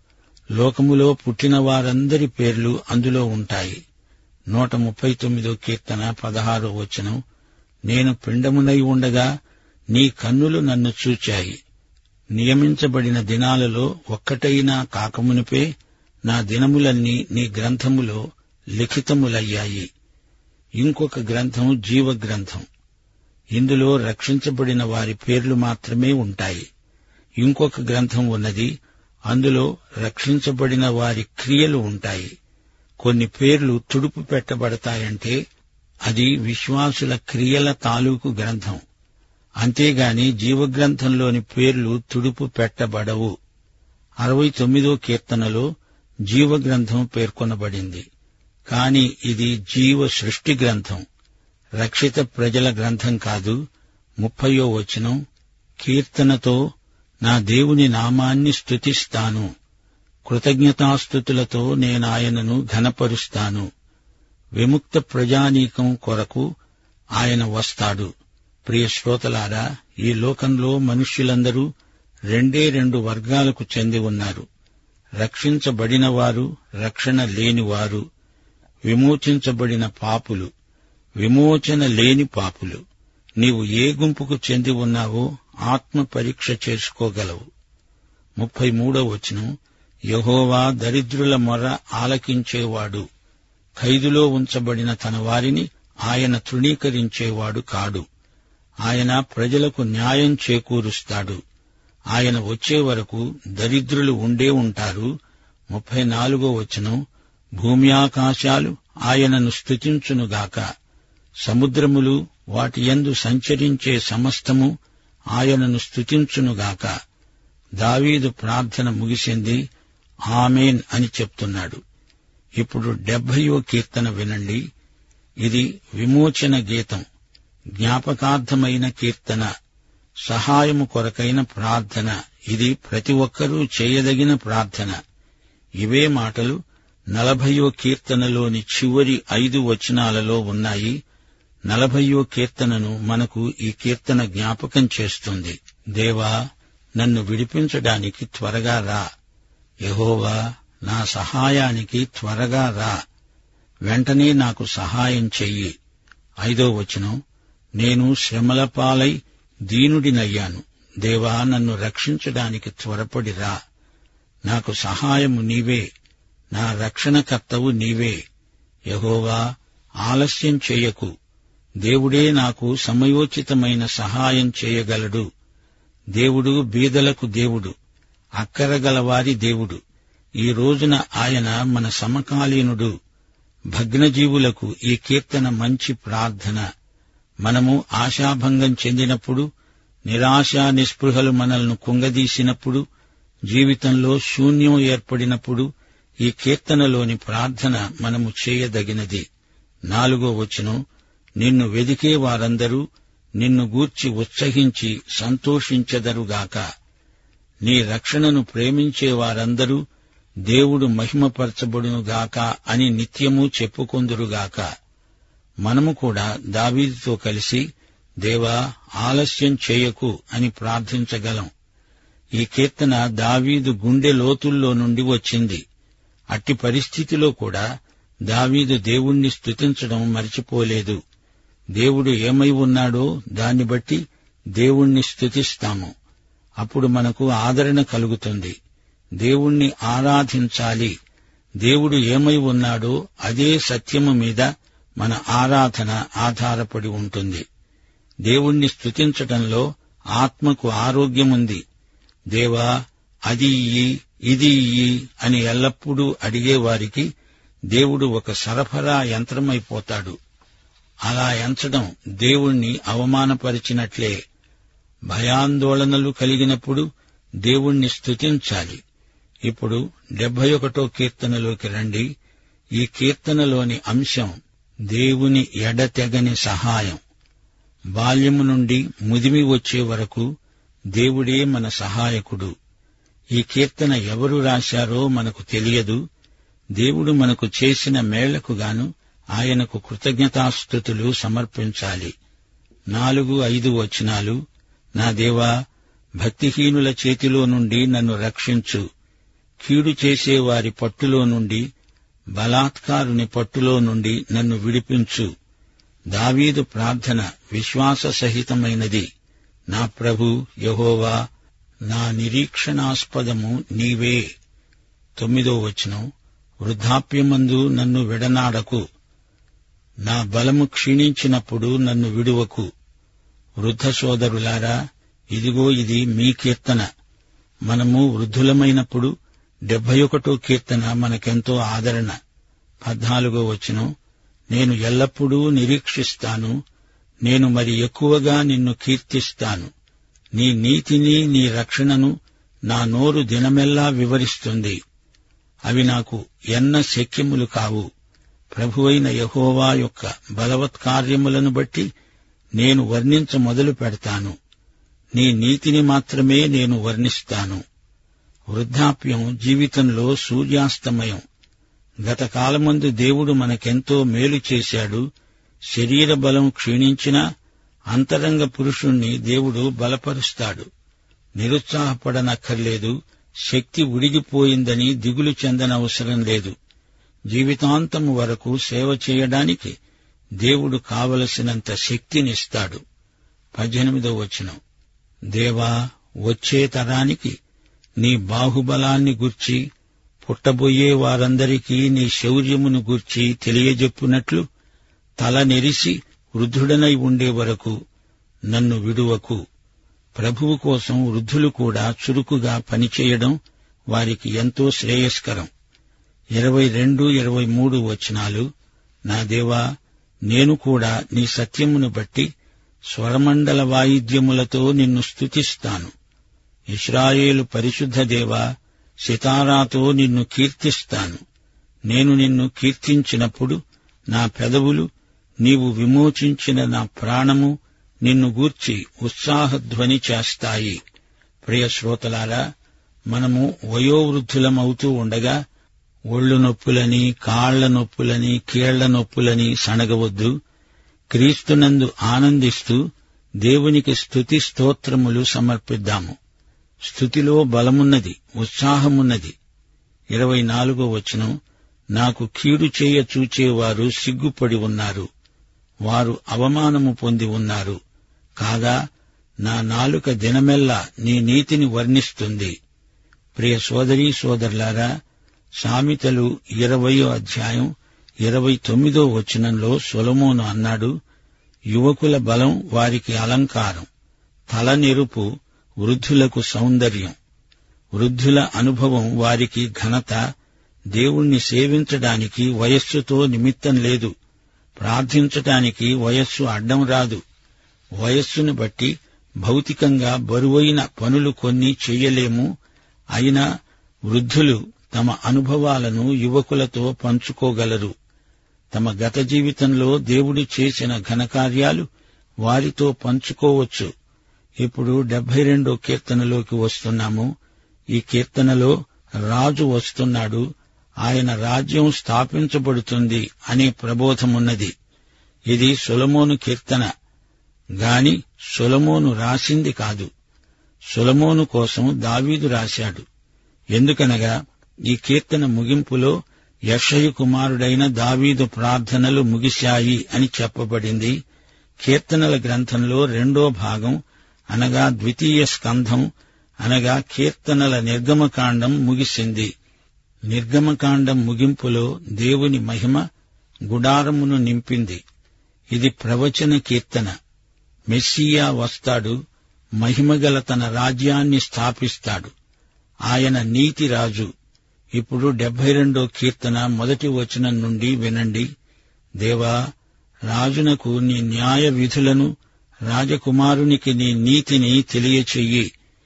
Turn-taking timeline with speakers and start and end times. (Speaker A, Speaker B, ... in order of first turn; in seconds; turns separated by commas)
Speaker A: 0.6-3.8, Speaker A: 4.5-7.2, Speaker A: 7.9-9.3, Speaker A: 9.9-11.6, Speaker A: 12.3-15.7, Speaker A: 16.3-18.2, Speaker A: 18.8-19.9, Speaker A: 20.8-22.6, Speaker A: 23.5-26.7, Speaker A: 27.4-28.7, Speaker A: 29.3-32.3, Speaker A: 33.0-35.4, Speaker A: 36.1-38.8, Speaker A: 39.6-43.3, Speaker A: 44.2-45.7, Speaker A: 46.3-48.0, Speaker A: 48.7-51.0, Speaker A: 51.8-53.6, Speaker A: 54.2-55.2, Speaker A: 55.8-56.6, Speaker A: 57.2-59.5, Speaker A: 60.3-63.7, Speaker A: 64.6-66.5, Speaker A: 67.2-68.1, Speaker A: 68.7-71.7, Speaker A: 72.3-74.5, Speaker A: 75.2-78.0, Speaker A: 78.9-80.5, Speaker A: 81.2-82.8, Speaker A: 83.4-87.5, Speaker A: 88.4-89.5, Speaker A: 90.1-93.0, Speaker A: 93.8-98.0, Speaker A: 98.8-101.4, Speaker A: 102.1-105.1, Speaker A: 105.7-107.0, Speaker A: 107.6-110.6, Speaker A: 111.4-114.7, Speaker A: 115.3-116.9, Speaker A: 117.8-119.6, Speaker A: 120.3-121.8, Speaker A: 122.6-124.6, Speaker A: 125.4-127.0, Speaker A: 127.8-129.5, Speaker A: 130.3-135.0, Speaker A: 135.8-136.6, Speaker A: 137.1-141.0, Speaker A: 141.7-146.3, Speaker A: 147.0-149.1, Speaker A: 149.8-153.0, Speaker A: 153.9-155.7, Speaker A: 156.4-157.2, Speaker A: 157.8-159.2, Speaker A: 159.7-163.6, Speaker A: 164.5-165.8, Speaker A: 166.5-168.2, Speaker A: 168.9-169.4, Speaker A: 170.0-171.1, Speaker A: 171.8-175.2, Speaker A: 176.2-177.7, Speaker A: 178.4-179.8, Speaker A: 180.4-182.9, Speaker A: 183.7-186.6, Speaker A: 187.4-189.5, Speaker A: 190.1-192.8, Speaker A: 193.5-195.7, Speaker A: 196.2-199.2, Speaker A: 199.9-200.8, Speaker A: 201.4-202.8, Speaker A: 203.4-206.6, Speaker A: 207.6-209.8, Speaker A: 210.5-214.7, Speaker A: 215.6-217.6, Speaker A: 218.2-221.5, Speaker A: 222.4-225.6, Speaker A: 226.3-227.6, Speaker A: 228.3-231.0, Speaker A: 231.8-234.0, Speaker A: 234.6-235.9, Speaker A: 236.6-238.6, Speaker A: 239.2-240.9, Speaker A: 241.6-244.5, Speaker A: 245.0-247.4, Speaker A: 248.3-251.6, Speaker A: 252.3-252.7, Speaker A: 253.3-257.1, Speaker A: 257.7-260.2, Speaker A: 261.1-264.2, Speaker A: 265.1-266.9, Speaker A: 267.4-268.8, Speaker A: 269.5-272.1, Speaker A: 272.8-274.4, Speaker A: 274.9-277.0, Speaker A: 277.9-280.3, Speaker A: 280.9-282.5, Speaker A: 283.4-286.0, Speaker A: 286.8-292.1, Speaker A: 292.9-294.4, Speaker A: 295.0-295.5, Speaker A: 296.2-298.8, Speaker A: 299.6-301.6, Speaker A: 302.4-305.3, Speaker A: 306.1-309.1, Speaker A: 309.7-311.2, Speaker A: 311.9-314.2, Speaker A: 315.2-316.1, Speaker A: 316.6-318.8, Speaker A: 320.1-322.7, Speaker A: 323.6-324.8, Speaker A: 325.3-326.8, Speaker A: 327.7-329.1, Speaker A: 329.7-332.1, Speaker A: 332.8-333.9, Speaker A: 334.5-336.6, Speaker A: 337.2-339.7, Speaker A: 340.4-342.1, Speaker A: 342.7-344.8, Speaker A: 345.7-347.9, Speaker A: 348.5-351.9, Speaker A: 352.6-354.4, Speaker A: 355.1-357.6, Speaker A: 358.5-361.2, Speaker A: 362.0-365.0, Speaker A: 365.7-367.2, Speaker A: 367.9-370.7, Speaker A: 371.4-372.9, Speaker A: 373.5-376.5, Speaker A: 377.3-379.7, Speaker A: 380.4-382.8, Speaker A: 383.6-384.6, Speaker A: 385.3-385.7, Speaker A: 386.2-387.4, Speaker A: 388.0-389.6, Speaker A: 390.2-394.4, Speaker A: 395.2-397.7, Speaker A: 398.5-399.4, Speaker A: 400.2-403.4, Speaker A: 403.9-405.5, Speaker A: 406.4-408.5, Speaker A: 409.1-409.6, Speaker A: 410.3-412.3, Speaker A: 412.9-415.9, Speaker A: 416.7-418.4, Speaker A: 419.0-421.2, Speaker A: 421.9-423.6, Speaker A: 424.1-424.9, Speaker A: 425.4-430.8, Speaker A: 431.4-432.4, Speaker A: 433.1-435.4, Speaker A: 436.1-440.3, Speaker A: 441.1-442.8, Speaker A: 443.4-446.2, Speaker A: 446.9-449.4, Speaker A: 450.1-451.3, Speaker A: 451.9-455.1, Speaker A: 455.9-457.8, Speaker A: 458.4-458.8, Speaker A: 459.4-462.5, Speaker A: 463.4-464.9, Speaker A: 465.6-467.7, Speaker A: 468.2-470.9, Speaker A: 471.7-473.9, Speaker A: 474.5-475.3, Speaker A: 475.8-477.1, Speaker A: 477.9-480.2, Speaker A: 480.9-484.1, Speaker A: 484.8-487.2, Speaker A: 488.0-492.5, Speaker A: 493.1-493.4, Speaker A: 494.1-497.9, Speaker A: 498.7-501.9, Speaker A: 502.4-503.9, Speaker A: 504.6-507.3, Speaker A: 507.9-508.7, Speaker A: 509.3-510.4, Speaker A: 511.0-514.7, Speaker A: 515.5-516.9, Speaker A: 517.8-520.1, Speaker A: 520.9-523.0, Speaker A: 523.7-524.3, Speaker A: 524.9-526.1, Speaker A: 526.7-531.1, Speaker A: 531.8-534.0, Speaker A: 534.5-536.1, Speaker A: 536.6-539.5, Speaker A: 540.3-543.0, Speaker A: 543.7-545.0, Speaker A: 545.7-547.1, Speaker A: 547.9-549.2, Speaker A: 549.8-552.3, Speaker A: 553.1-554.3, Speaker A: 555.0-558.5, Speaker A: 559.2-559.6, Speaker A: 560.3-562.3, Speaker A: 562.9-565.7